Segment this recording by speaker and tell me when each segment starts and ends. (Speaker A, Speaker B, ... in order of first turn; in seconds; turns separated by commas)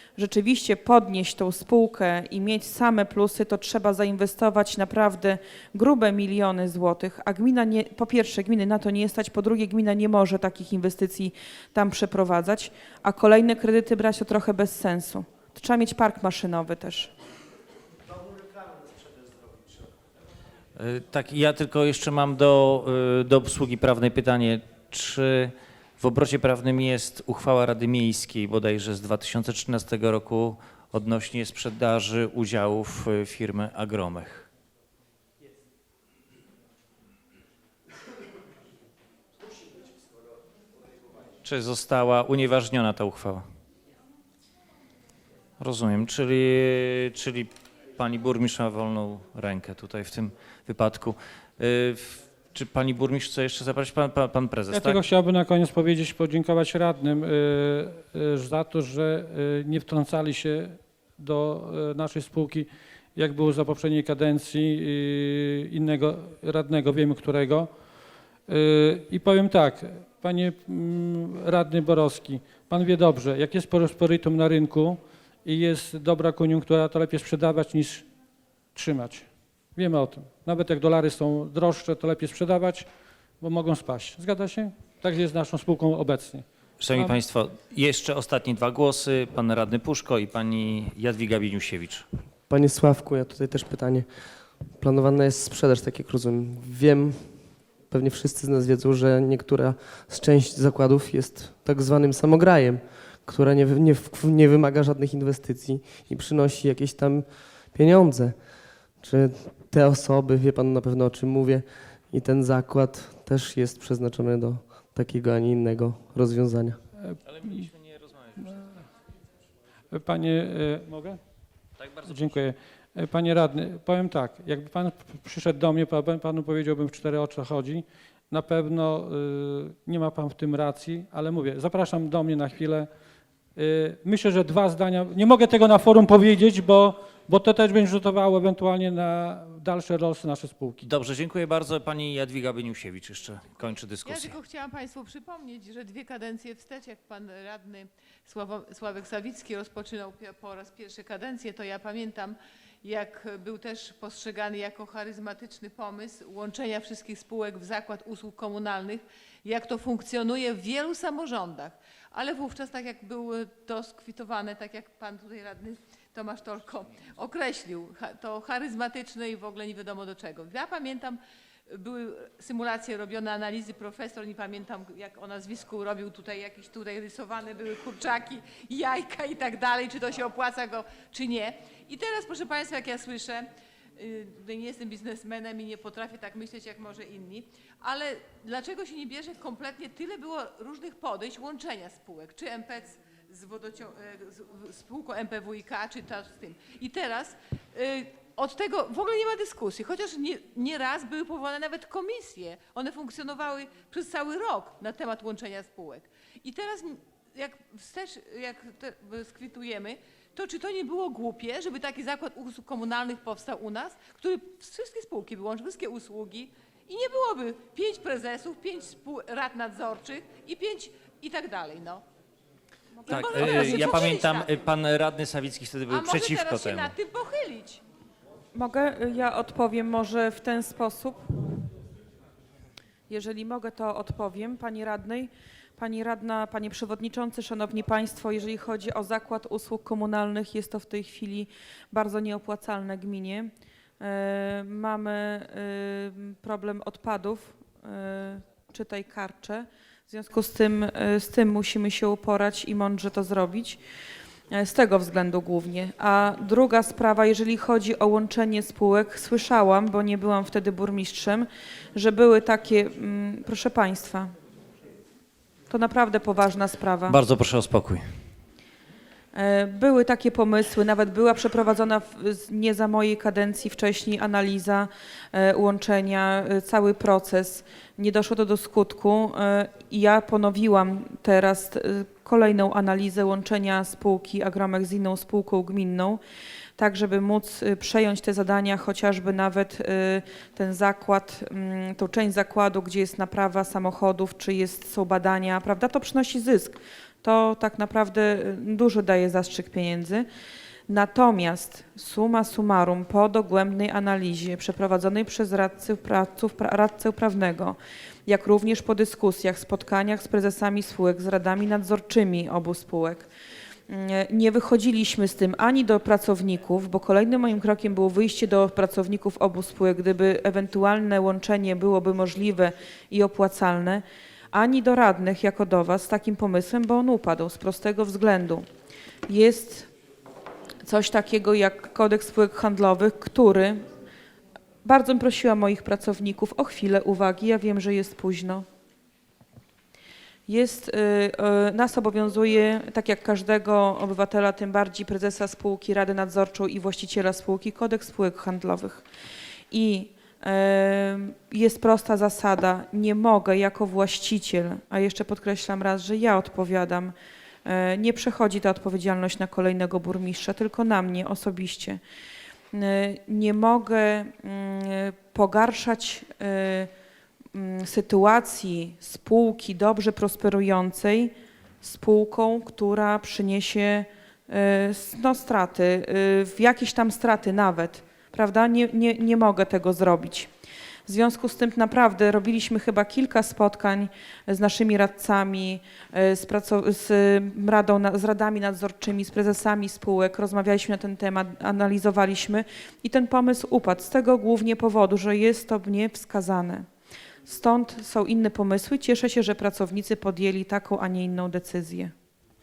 Speaker A: 0.2-17.1, Speaker B: 20.8-34.5, Speaker B: 41.4-43.5, Speaker B: 45.6-55.0, Speaker C: 54.7-67.7, Speaker C: 68.5-78.1, Speaker C: 78.8-82.9, Speaker C: 83.4-87.2, Speaker B: 86.8-92.1, Speaker D: 92.5-94.1, Speaker D: 94.8-116.8, Speaker C: 117.0-117.7, Speaker B: 117.3-118.6, Speaker C: 119.9-121.2, Speaker B: 121.8-122.1, Speaker C: 122.0-132.9, Speaker C: 133.6-140.8, Speaker B: 140.8-144.4, Speaker E: 144.1-171.2, Speaker E: 171.7-222.0, Speaker E: 222.9-224.6, Speaker B: 223.1-226.9, Speaker E: 225.9-227.8, Speaker A: 228.5-231.2, Speaker A: 233.1-253.8, Speaker A: 254.5-264.3, Speaker A: 265.7-267.2, Speaker B: 267.1-268.1, Speaker A: 269.3-286.2, Speaker A: 286.8-300.3, Speaker A: 300.9-313.3, Speaker A: 313.9-328.7, Speaker A: 329.3-329.9, Speaker A: 330.8-333.9, Speaker A: 334.8-338.7, Speaker A: 340.5-349.1, Speaker A: 349.7-357.1, Speaker A: 357.6-362.0, Speaker A: 362.7-366.9, Speaker A: 367.5-380.5, Speaker A: 381.1-396.9, Speaker A: 397.5-402.1